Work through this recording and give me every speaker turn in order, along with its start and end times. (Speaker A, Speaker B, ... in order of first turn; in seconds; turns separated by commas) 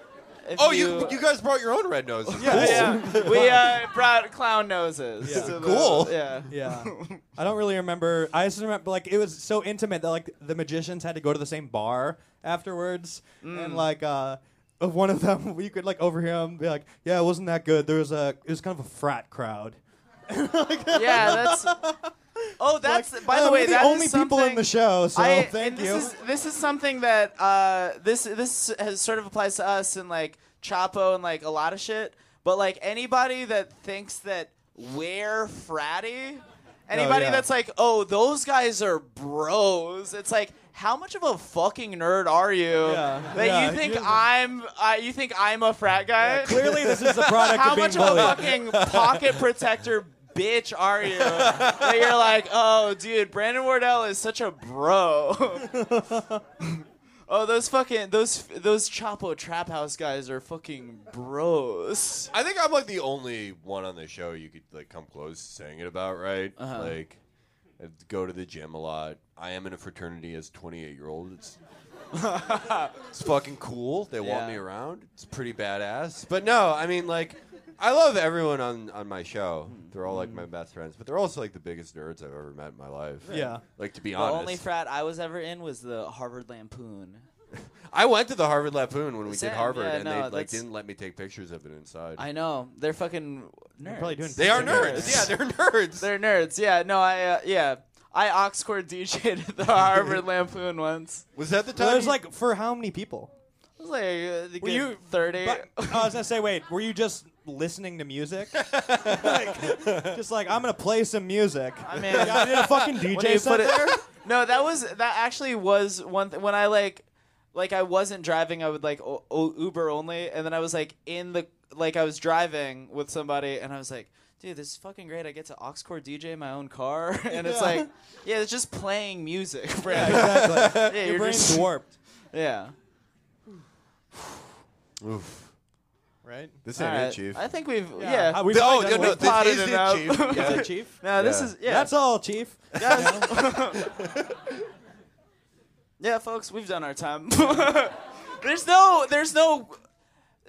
Speaker A: 0.4-1.2, Speaker B: 0.6-3.7, Speaker A: 2.3-7.2, Speaker C: 2.4-3.8, Speaker C: 5.2-5.6, Speaker B: 5.2-6.4, Speaker C: 6.5-26.1, Speaker A: 13.4-13.8, Speaker A: 20.9-21.7, Speaker A: 22.6-55.7, Speaker C: 36.9-37.5, Speaker C: 42.8-44.2, Speaker C: 46.2-48.5, Speaker B: 46.5-49.4, Speaker B: 51.1-52.3, Speaker C: 55.6-56.4, Speaker A: 56.6-62.3, Speaker B: 62.3-67.2, Speaker A: 66.6-66.9, Speaker B: 67.8-71.6, Speaker A: 72.1-73.0, Speaker B: 73.1-84.6, Speaker A: 74.2-74.6, Speaker A: 79.7-80.5, Speaker A: 83.2-83.6, Speaker C: 83.3-83.6, Speaker A: 84.1-87.2, Speaker B: 87.5-92.2, Speaker A: 89.3-90.6, Speaker A: 92.2-95.3, Speaker C: 93.8-95.3, Speaker B: 94.4-96.1, Speaker A: 96.0-101.2, Speaker B: 99.9-100.2, Speaker B: 101.3-102.2, Speaker C: 101.7-103.3, Speaker A: 103.8-106.1, Speaker C: 104.6-114.0, Speaker B: 108.5-110.2, Speaker A: 111.8-131.7, Speaker B: 112.0-112.9, Speaker C: 127.3-127.9, Speaker C: 129.9-131.9, Speaker B: 129.9-131.0, Speaker A: 132.3-132.7, Speaker B: 135.0-135.5, Speaker C: 136.2-136.6, Speaker B: 136.6-137.4, Speaker A: 136.8-141.9, Speaker C: 138.0-139.6, Speaker B: 138.5-141.5, Speaker C: 140.2-143.4, Speaker A: 142.7-143.8, Speaker B: 143.7-144.5, Speaker A: 146.0-149.8